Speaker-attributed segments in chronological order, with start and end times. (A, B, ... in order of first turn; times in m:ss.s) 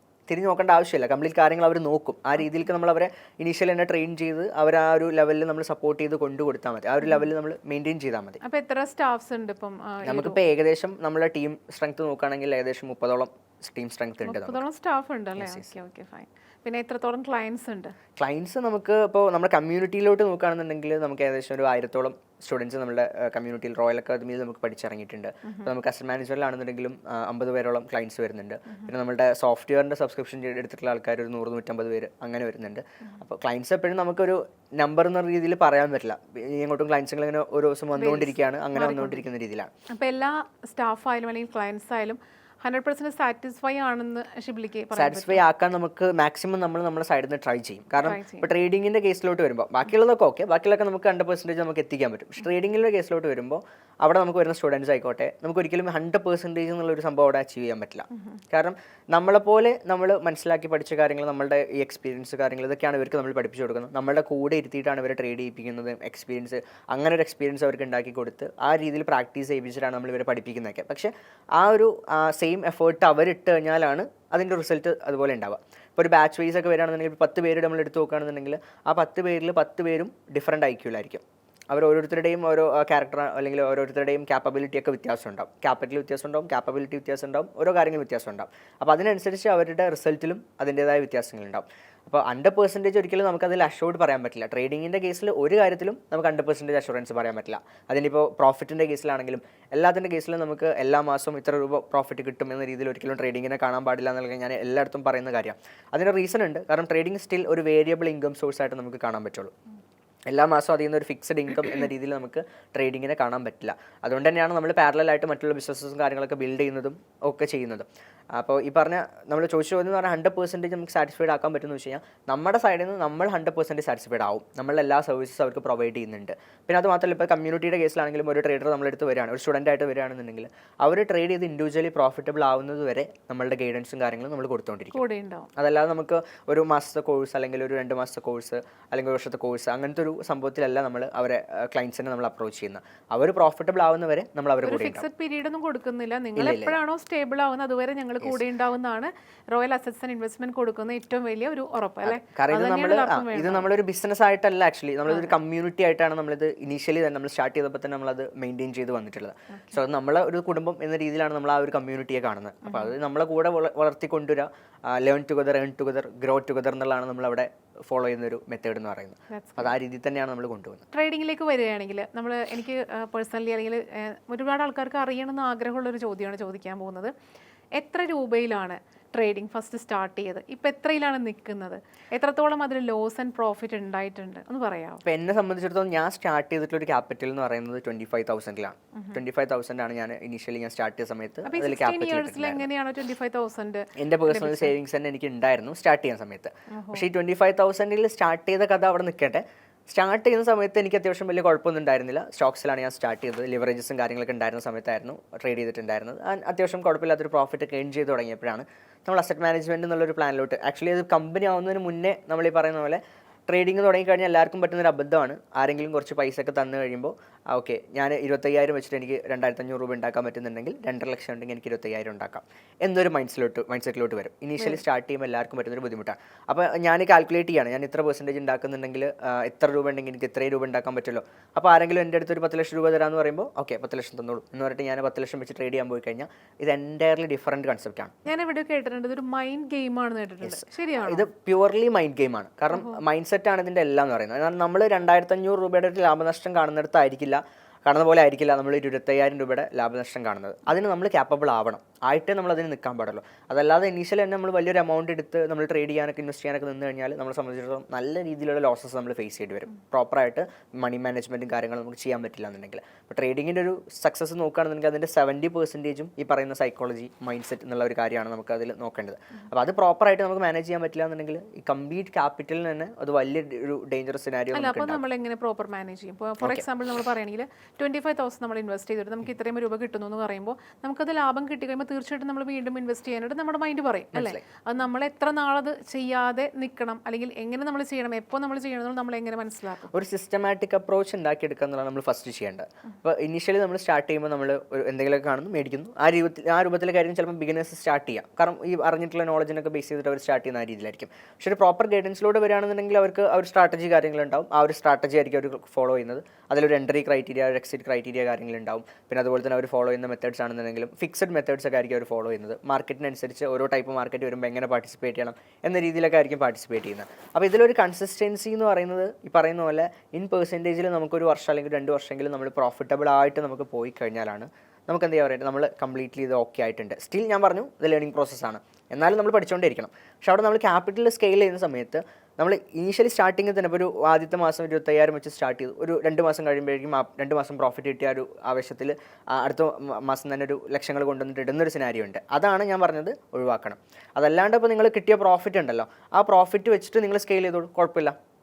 0:00.3-0:08.4 A
0:08.4-0:10.4 B
0:10.0-0:14.6 A
0:14.2-0:17.9 B
0:15.4-0:15.7 A
0:18.2-0:39.7 A
0:38.0-0:39.2 B
0:40.0-0:45.4 B
0:44.9-1:49.5 A
0:48.0-0:48.5 B
1:50.3-2:15.0 A
2:14.9-2:15.5 B
2:15.6-2:25.0 A
2:24.6-2:33.7 B
2:26.4-2:26.8 A
2:32.0-2:50.8 A
2:35.1-2:35.3 B
2:42.6-2:42.9 B
2:49.3-2:49.7 B
2:50.9-2:57.1 B
2:57.8-3:05.0 B
3:05.0-3:12.7 A
3:11.4-3:14.7 B
3:14.0-3:58.1 A
3:16.7-3:17.1 B
3:58.2-4:01.2 B
4:00.4-4:35.0 A
4:02.7-4:03.0 B
4:34.5-4:49.9 B
4:44.1-4:44.4 A
4:49.9-5:48.2 A